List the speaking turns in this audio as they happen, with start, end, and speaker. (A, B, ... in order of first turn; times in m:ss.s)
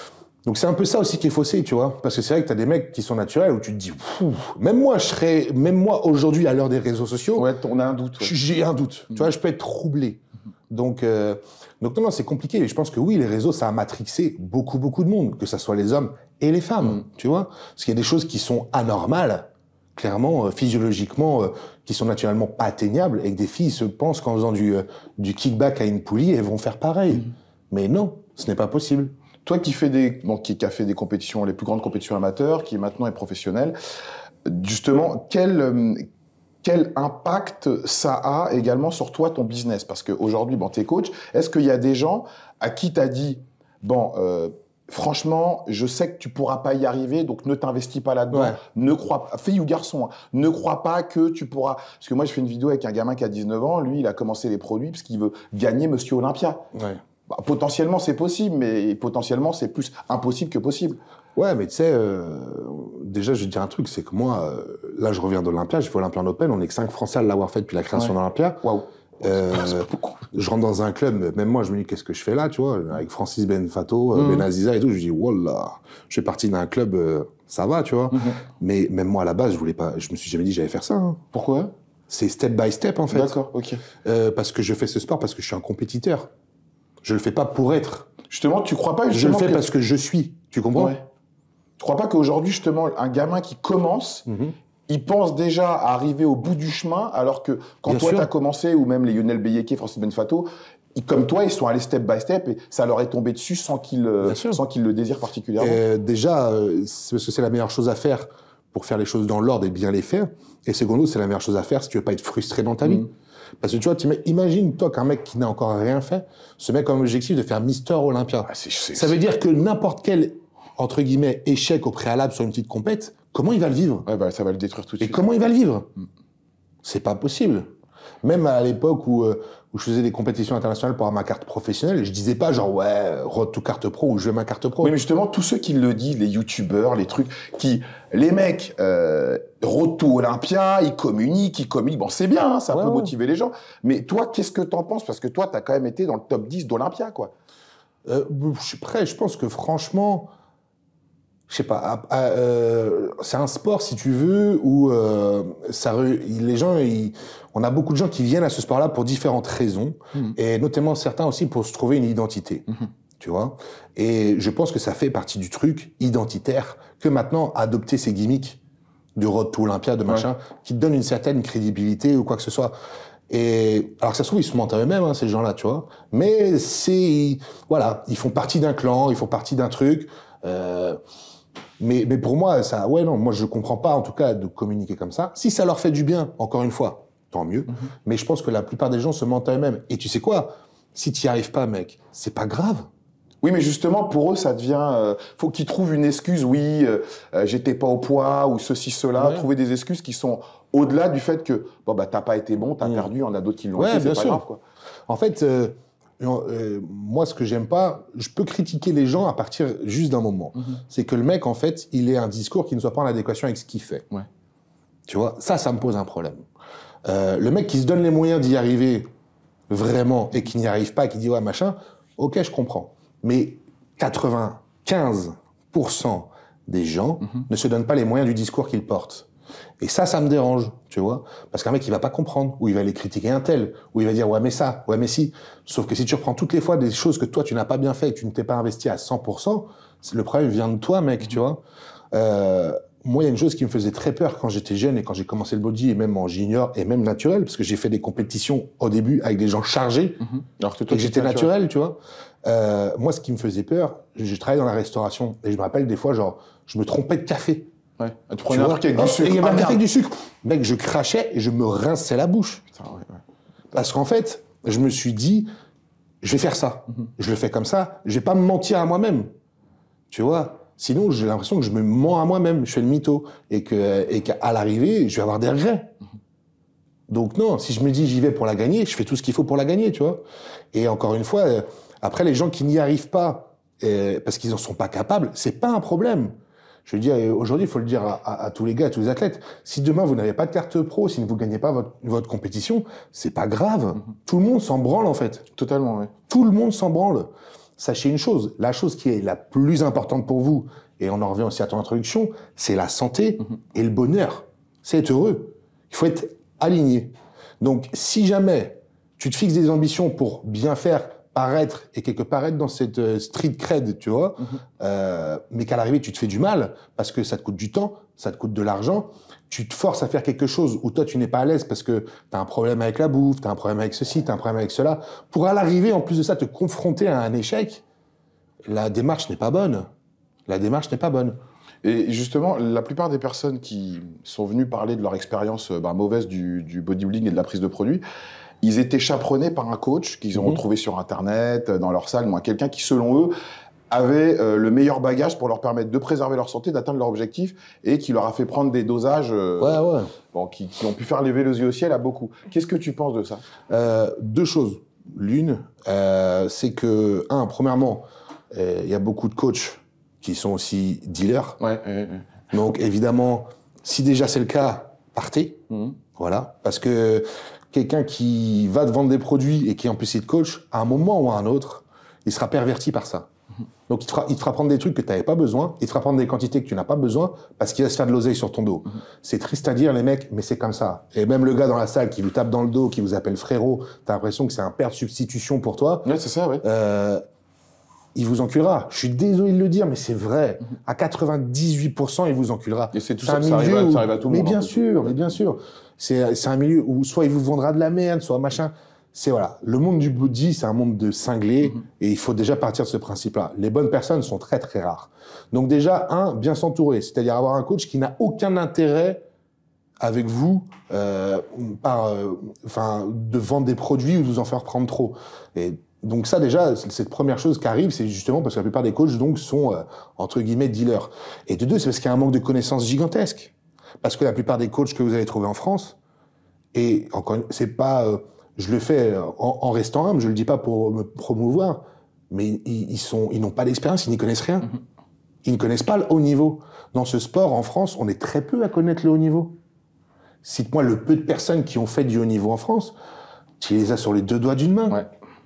0:00.4-0:07.4 A
0:07.4-0:08.3 B
0:08.2-0:29.1 A
0:29.4-0:33.8 B
0:34.4-0:36.0 B
0:36.6-0:56.6 B
0:48.3-0:48.6 A
0:56.7-0:57.0 A
0:57.3-1:01.0 B
1:01.4-1:08.6 A
1:07.9-1:10.1 B
1:09.2-1:21.2 A
1:14.1-1:14.4 B
1:18.1-1:18.4 B
1:21.3-1:21.7 B
1:22.1-1:23.4 A
1:23.1-1:23.8 B
1:24.0-1:26.3 A
1:27.0-1:28.1 A
1:28.3-1:29.6 B
1:29.1-1:30.9 A
1:30.8-1:31.0 B
1:31.8-1:34.3 B
1:34.3-1:34.5 A
1:34.9-1:45.8 B
1:37.9-1:38.3 A
1:44.2-1:44.6 A
1:45.6-1:53.1 A
1:53.6-2:04.0 A
1:58.5-1:59.1 B
2:04.0-2:05.2 B
2:05.0-2:05.9 A
2:06.8-2:07.7 A
2:08.2-2:14.9 A
2:14.8-2:27.3 B
2:22.7-2:23.1 A
2:28.0-2:30.3 A
2:31.5-2:42.7 A
2:43.2-2:48.6 A
2:49.1-2:52.7 A
2:53.3-3:01.0 A
3:01.8-3:12.9 A
3:13.4-3:24.6 B
3:19.2-3:19.5 A
3:23.8-3:24.4 A
3:25.1-3:34.0 A
3:35.1-3:36.4 A
3:37.0-3:39.1 A
3:39.7-3:49.3 A
3:49.8-4:01.6 A
4:02.1-4:10.3 A
4:10.4-4:11.5 B
4:10.9-4:17.7 A
4:18.0-4:19.8 B
4:18.5-4:22.6 A
4:22.8-4:23.2 B
4:23.7-4:25.5 A
4:26.2-4:29.3 A
4:30.1-4:35.9 A
4:37.1-4:40.2 A
4:40.7-4:46.3 A
4:46.8-4:55.4 A
4:55.5-4:56.1 B
4:56.3-5:27.8 A
5:28.6-5:29.9 A
5:30.5-5:31.4 A
5:31.8-5:38.0 B
5:38.6-5:43.3 B
5:43.9-5:53.4 B
5:49.6-5:50.1 A
5:53.7-6:01.6 A
6:01.6-6:02.3 B
6:02.5-6:05.6 A
6:05.7-6:06.0 B
6:06.2-6:13.3 A
6:13.9-6:26.1 A
6:26.0-6:26.6 B
6:26.6-6:27.2 A
6:28.1-6:49.2 A
6:32.9-6:35.2 B
6:50.0-7:06.0 A
7:06.7-7:14.7 A
7:15.4-7:19.6 A
7:20.4-7:23.0 A
7:23.6-7:25.0 A